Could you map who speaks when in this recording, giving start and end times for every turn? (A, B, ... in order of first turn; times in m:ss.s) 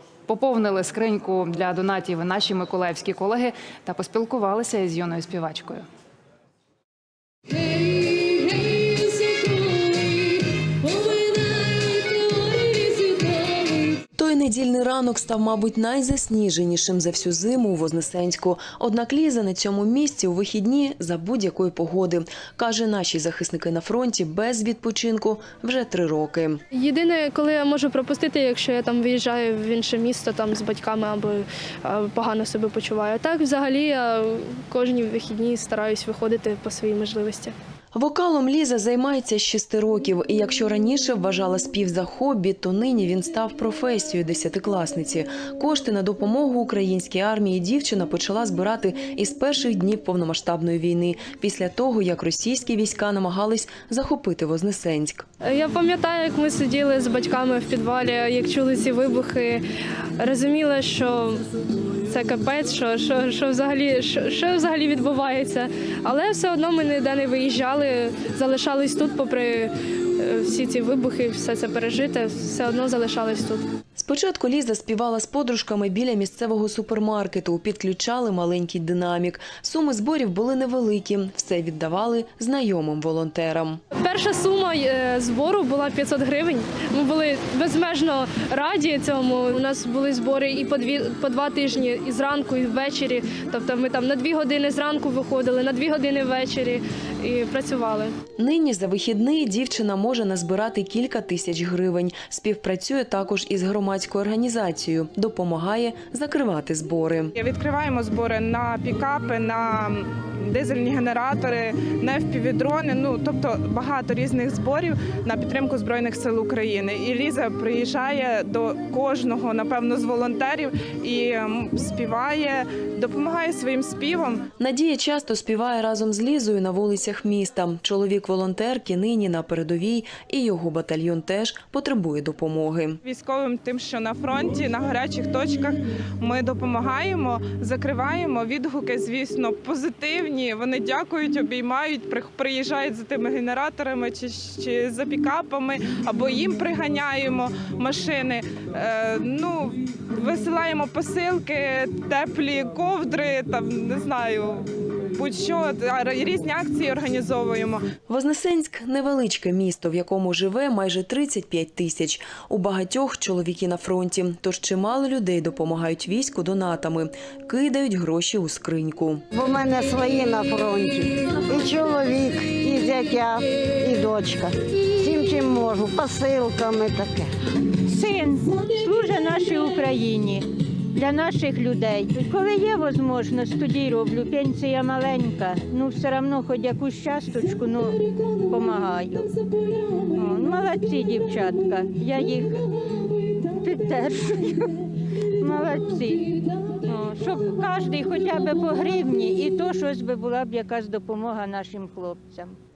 0:00.3-0:05.8 A
0:14.2-0:26.6 B
0:26.7-0:37.5 C
0:37.9-0:55.2 B
0:55.4-0:59.6 C
1:00.2-1:01.4 C
1:02.1-1:13.6 C
1:13.9-1:23.8 B
1:23.9-1:38.2 C
1:38.4-1:47.3 B
1:47.4-2:04.4 D
2:04.6-2:13.0 B
2:13.0-2:37.8 D
2:38.1-2:49.2 B
2:49.3-2:57.3 E
2:57.8-3:09.3 F
3:10.0-3:12.7 F
3:13.4-3:14.9 F
3:15.4-3:22.6 F